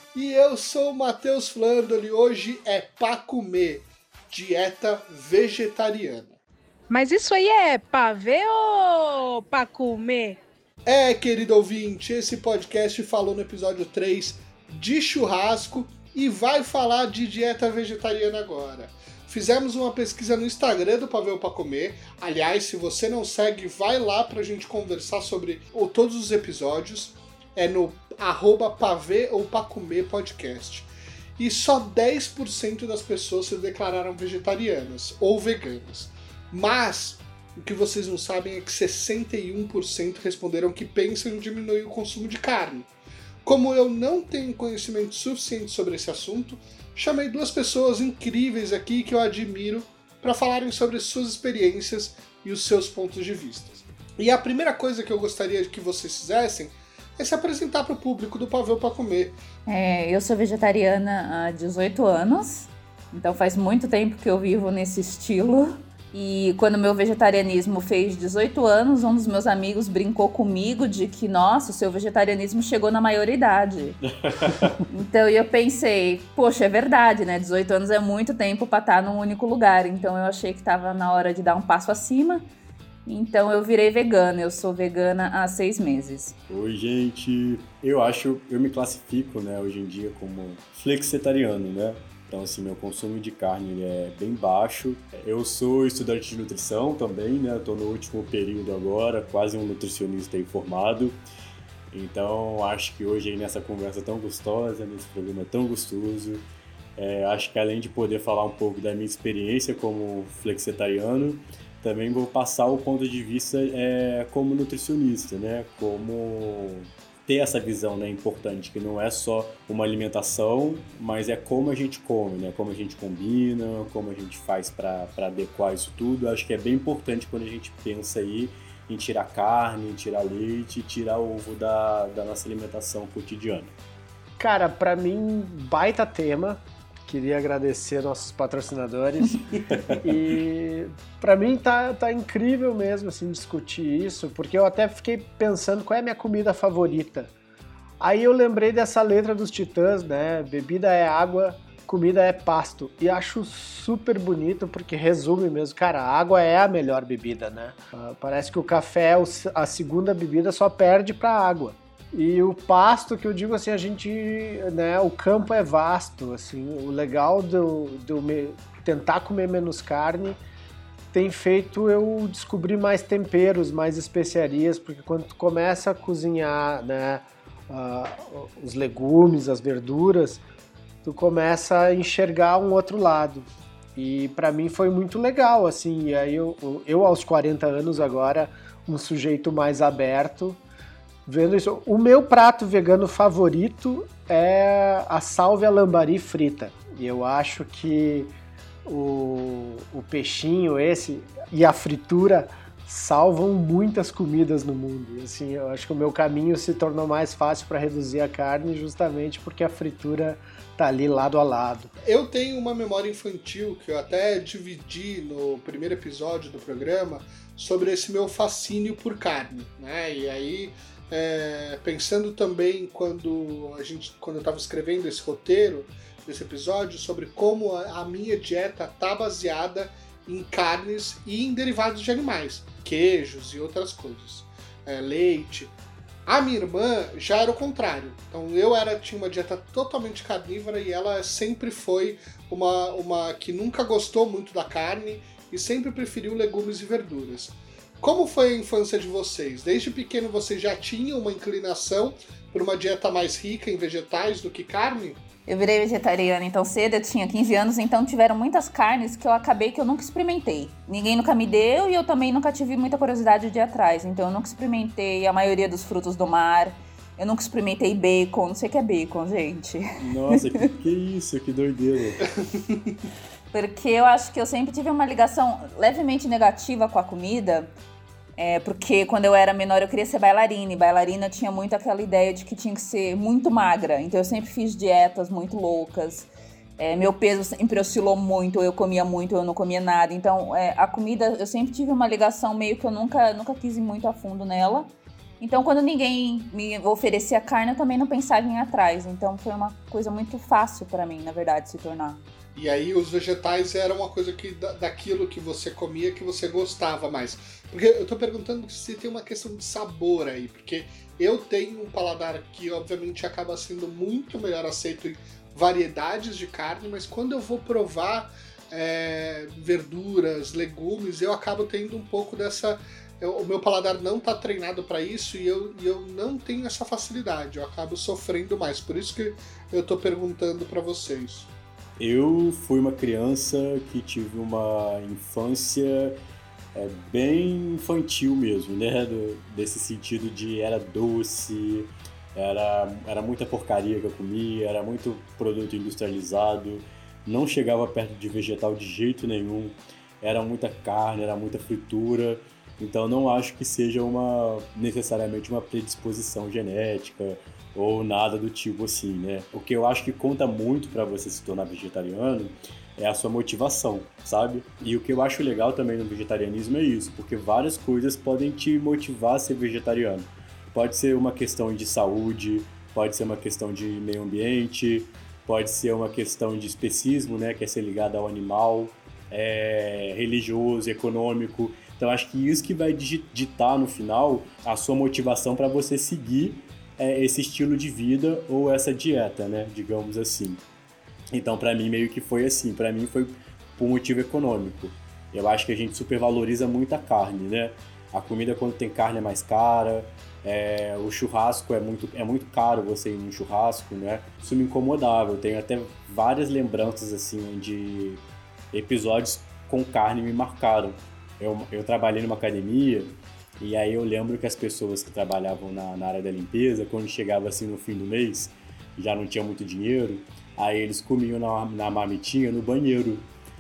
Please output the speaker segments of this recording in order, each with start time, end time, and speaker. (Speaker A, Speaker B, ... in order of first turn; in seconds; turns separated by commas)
Speaker A: 0.1-6.4, Speaker B: 6.9-10.4, Speaker A: 10.8-42.9, Speaker A: 43.4-59.4, Speaker C: 59.7-74.0, Speaker D: 74.2-74.8, Speaker C: 74.9-82.4, Speaker C: 83.0-86.3, Speaker D: 86.5-101.2, Speaker D: 101.9-106.4, Speaker D: 107.0-133.7, Speaker E: 134.4-147.3, Speaker D: 139.7-140.0, Speaker E: 148.0-170.4, Speaker E: 171.1-180.4, Speaker E: 181.0-190.6, Speaker E: 191.2-198.3, Speaker E: 198.8-211.9, Speaker A: 212.0-235.7, Speaker A: 236.2-255.2, Speaker C: 255.5-270.4, Speaker D: 270.0-272.3, Speaker C: 273.5-277.7, Speaker C: 278.4-302.2, Speaker A: 302.5-331.5, Speaker D: 332.0-336.2, Speaker D: 336.7-390.6, Speaker D: 391.3-408.2, Speaker D: 408.7-423.2